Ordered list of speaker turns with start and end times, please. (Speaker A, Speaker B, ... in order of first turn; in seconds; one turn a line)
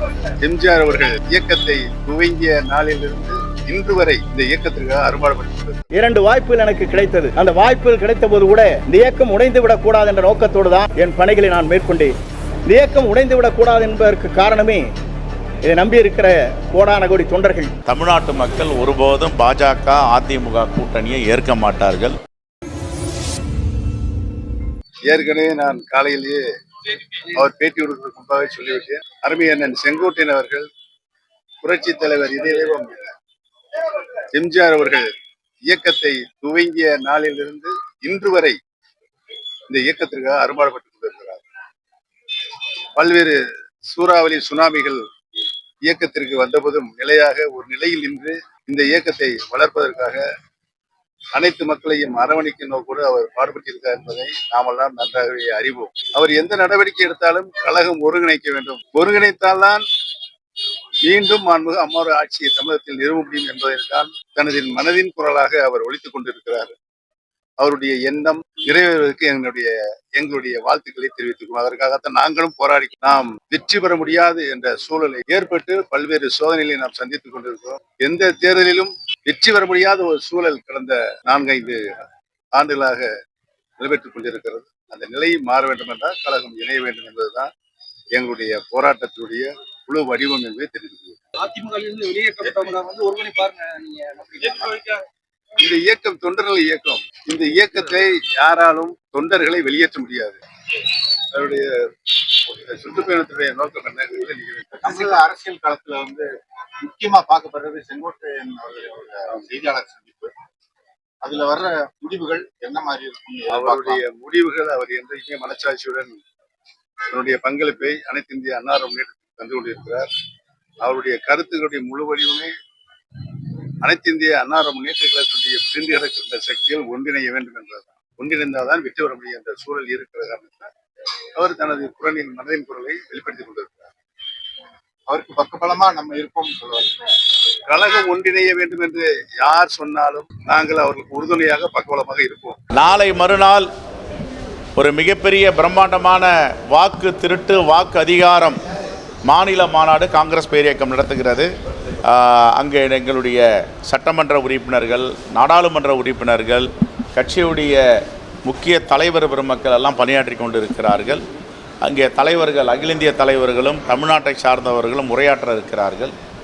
Speaker A: 0.4-5.8
Speaker B: 6.0-12.1
Speaker B: 12.7-14.8
Speaker B: 15.7-17.7
Speaker C: 17.9-22.2
Speaker A: 25.1-26.4
Speaker A: 27.1-30.7
Speaker A: 31.6-33.1
Speaker A: 33.8-35.1
Speaker A: 35.7-38.6
Speaker A: 39.7-41.4
Speaker A: 43.0-43.4
Speaker A: 43.9-45.0
Speaker A: 45.9-50.2
Speaker A: 51.3-59.8
Speaker A: 61.0-66.8
Speaker A: 67.6-81.9
Speaker A: 82.5-83.1
Speaker A: 83.8-87.5
Speaker A: 88.1-91.2
Speaker D: 91.4-94.8
Speaker A: 94.5-95.0
Speaker A: 95.6-100.4
Speaker A: 101.3-101.7
Speaker A: 102.5-105.0
Speaker E: 104.8-110.3
Speaker E: 111.2-114.0
Speaker A: 113.5-116.2
Speaker A: 117.1-120.1
Speaker A: 120.8-122.5
Speaker A: 123.8-130.7
Speaker A: 131.4-133.9
Speaker E: 135.1-136.9
Speaker A: 137.7-142.6
Speaker C: 142.7-143.7
Speaker C: 144.8-148.6
Speaker C: 149.2-151.5
Speaker C: 152.1-157.8
Speaker C: 158.4-161.2
Speaker C: 161.8-166.1